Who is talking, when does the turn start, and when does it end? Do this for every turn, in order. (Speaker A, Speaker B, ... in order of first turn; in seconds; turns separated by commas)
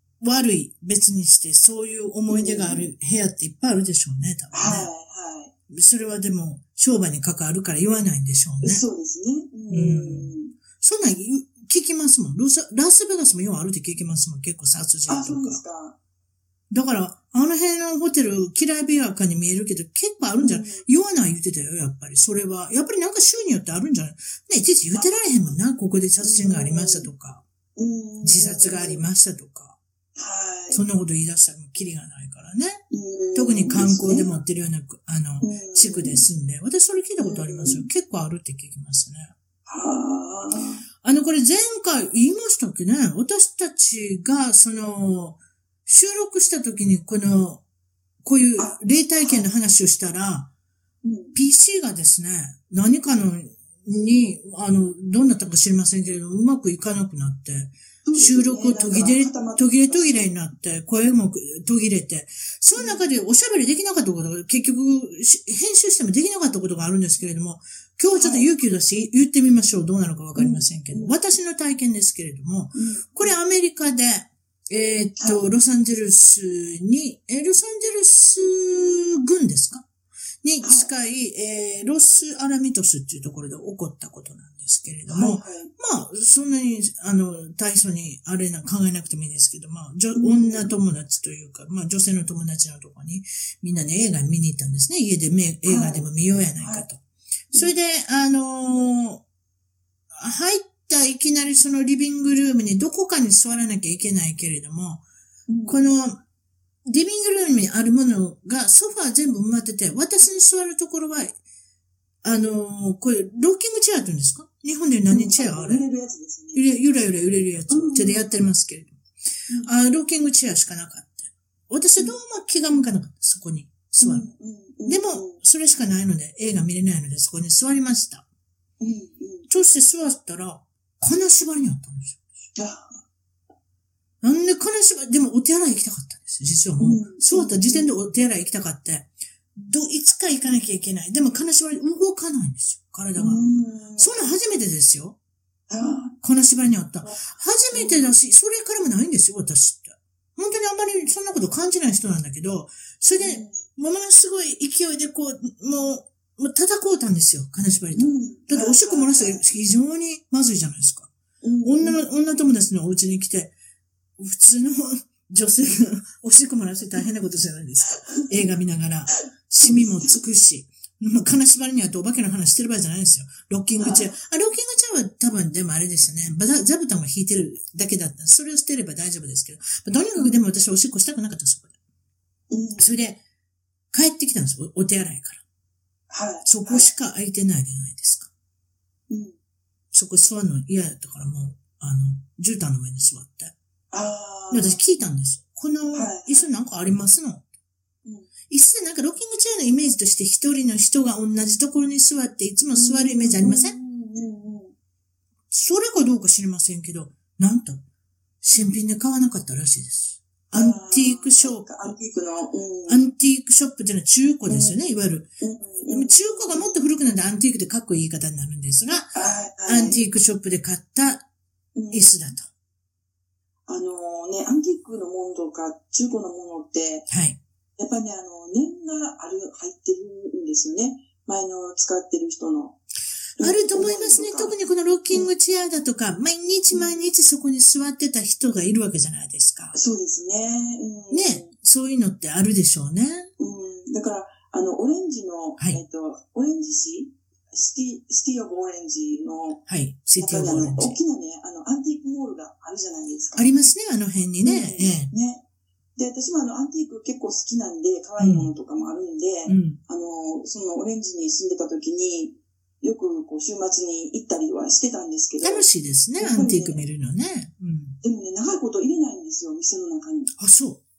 Speaker A: 0.2-4.9, Speaker B: 2.3-2.9, Speaker B: 4.5-5.5, Speaker A: 5.7-8.8, Speaker B: 8.6-10.5, Speaker A: 9.7-15.6, Speaker B: 15.1-16.0, Speaker A: 16.7-27.4, Speaker B: 20.4-20.8, Speaker B: 24.9-25.2, Speaker B: 26.2-27.1, Speaker B: 27.8-29.0, Speaker A: 28.2-29.8, Speaker B: 30.1-30.8, Speaker A: 30.7-32.8, Speaker B: 32.9-34.3, Speaker A: 33.3-39.3, Speaker B: 35.4-36.2, Speaker B: 37.2-37.9, Speaker B: 39.6-40.8, Speaker A: 41.0-47.6, Speaker A: 48.2-50.5, Speaker B: 48.6-49.4, Speaker B: 51.0-51.4, Speaker A: 51.3-79.8, Speaker B: 58.0-60.3, Speaker B: 62.8-63.0, Speaker B: 68.1-68.5, Speaker B: 70.3-71.2, Speaker B: 72.7-73.3, Speaker B: 75.2-75.4, Speaker A: 80.4-97.0, Speaker B: 80.6-80.9, Speaker B: 85.1-85.7, Speaker B: 90.1-90.7, Speaker B: 95.6-96.1, Speaker B: 96.6-96.9, Speaker A: 97.5-99.2, Speaker A: 100.1-105.0, Speaker B: 105.5-105.8, Speaker A: 105.7-106.2, Speaker A: 106.8-111.3, Speaker A: 112.2-115.8, Speaker B: 115.1-116.6, Speaker A: 116.5-119.0, Speaker B: 117.7-118.4, Speaker A: 119.6-124.3, Speaker B: 124.0-125.4, Speaker A: 124.8-128.2, Speaker B: 128.8-129.5, Speaker A: 129.5-132.3, Speaker B: 132.5-133.0, Speaker A: 134.2-143.4, Speaker B: 136.8-137.9, Speaker B: 143.2-144.2, Speaker A: 144.0-145.2, Speaker B: 145.7-146.1, Speaker A: 146.2-161.1, Speaker B: 147.7-148.1, Speaker B: 153.2-153.6, Speaker B: 157.9-159.4, Speaker B: 161.4-162.0, Speaker A: 161.6-163.5, Speaker A: 164.2-181.7, Speaker B: 168.1-168.3, Speaker B: 169.6-170.2, Speaker B: 173.8-174.1, Speaker B: 182.5-182.9, Speaker A: 182.8-183.2, Speaker A: 183.9-185.4, Speaker B: 186.1-186.9, Speaker A: 186.4-188.3, Speaker B: 189.1-189.4, Speaker A: 189.9-193.5, Speaker B: 193.9-194.8, Speaker A: 194.5-197.4, Speaker B: 195.9-196.5, Speaker B: 198.0-198.3, Speaker A: 198.5-203.8, Speaker B: 202.7-204.7, Speaker A: 205.5-207.8, Speaker A: 208.4-211.7, Speaker B: 210.5-213.0, Speaker A: 212.9-215.3, Speaker B: 214.5-214.8, Speaker B: 215.4-216.8, Speaker A: 215.9-221.2, Speaker B: 219.1-220.0, Speaker B: 221.7-222.2, Speaker A: 221.9-222.5, Speaker B: 223.7-227.1, Speaker A: 227.1-227.4, Speaker B: 227.8-232.8, Speaker B: 233.4-234.6, Speaker A: 233.4-239.8, Speaker B: 236.7-237.1, Speaker B: 239.7-241.5, Speaker A: 241.1-243.3, Speaker B: 243.4-249.6, Speaker A: 249.7-251.0, Speaker B: 250.2-253.5, Speaker A: 253.3-255.1, Speaker B: 254.4-255.4, Speaker B: 255.9-266.8, Speaker A: 258.2-258.5, Speaker A: 259.5-259.8, Speaker A: 265.4-268.0, Speaker B: 268.0-270.3, Speaker A: 270.4-270.8